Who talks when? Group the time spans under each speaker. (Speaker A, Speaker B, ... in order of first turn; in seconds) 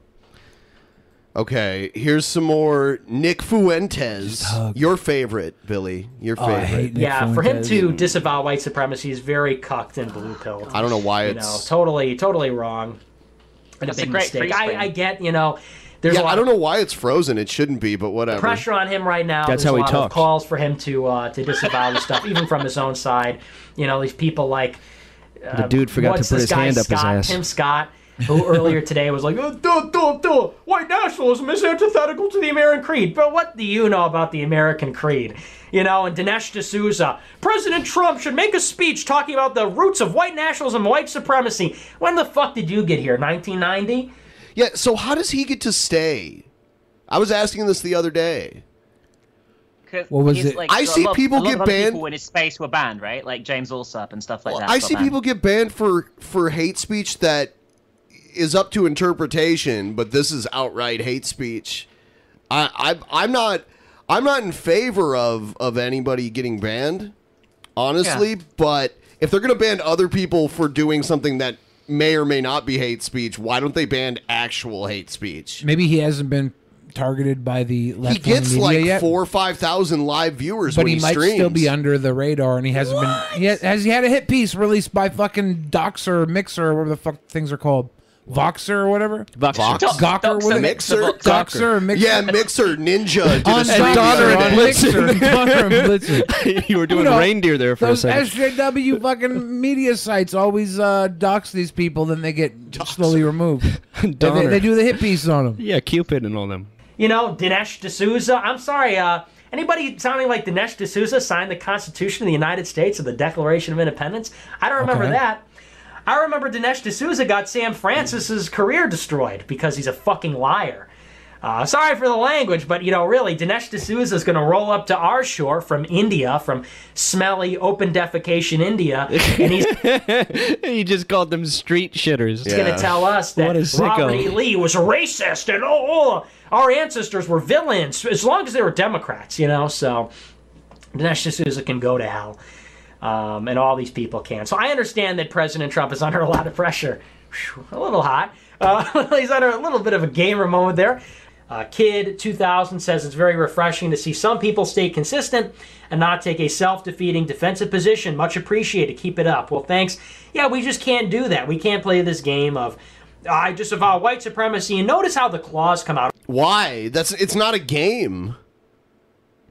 Speaker A: 1.3-7.0, 10.7-11.7, 16.1-18.6, 44.5-46.5, 47.1-48.6, 50.7-52.0, 54.5-57.5, 58.3-61.9, 62.5-67.1, 67.8-75.6, 78.0-81.7, 89.5-95.0, 102.8-103.2, 132.4-133.0, 166.3-168.3
Speaker B: 4.2-4.8, 6.4-7.9, 50.1-50.6, 75.6-79.1, 80.7-89.3, 89.9-92.3, 93.4-96.3, 96.9-105.6, 114.8-115.2
Speaker C: 6.9-13.0, 13.8-16.4, 18.3-24.8, 25.4-44.1, 107.0-115.4, 116.1-120.9, 121.4-129.7, 132.5-140.1, 140.9-142.4, 143.0-166.1
Speaker D: 13.8-14.9, 49.9-55.1, 89.7-91.7
Speaker E: 19.5-20.3, 25.5-27.4, 89.3-90.0, 93.5-98.4, 103.7-105.0, 105.6-106.7, 129.1-132.7, 133.3-134.4